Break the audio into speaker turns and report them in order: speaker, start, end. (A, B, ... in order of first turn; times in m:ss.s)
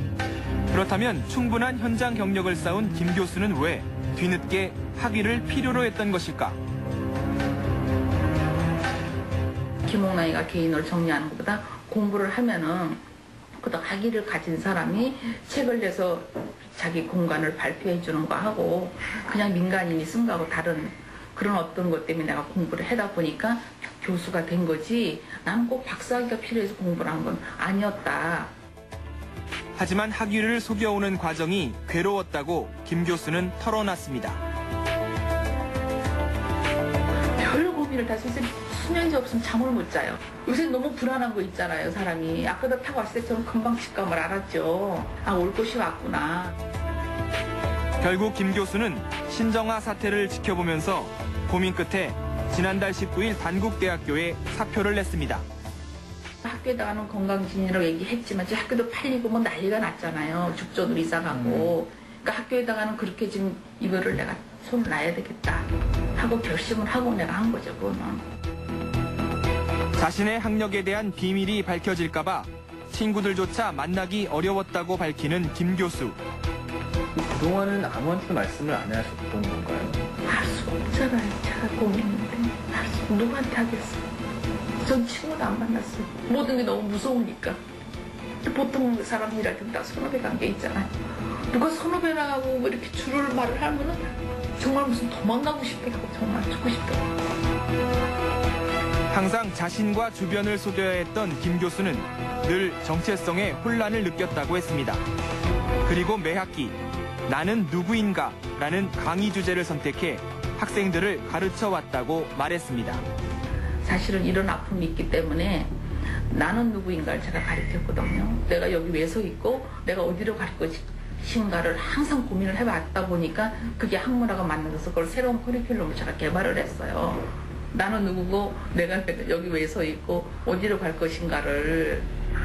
0:00.7-0:06.6 A
0:09.8-0:13.0 B
0:13.6-0:28.5 B
0:29.8-0:34.4 A
0:37.4-0:46.6 B
0:48.0-0:55.4 A
0:56.4-1:08.2 B
1:10.0-1:16.2 A
1:17.2-1:20.0 C
1:20.3-1:24.0 B
1:24.8-1:27.6 B
1:28.4-1:37.0 B
1:39.1-1:45.0 A
1:45.8-1:53.0 A
1:53.8-1:55.7 B
1:56.3-2:12.1 B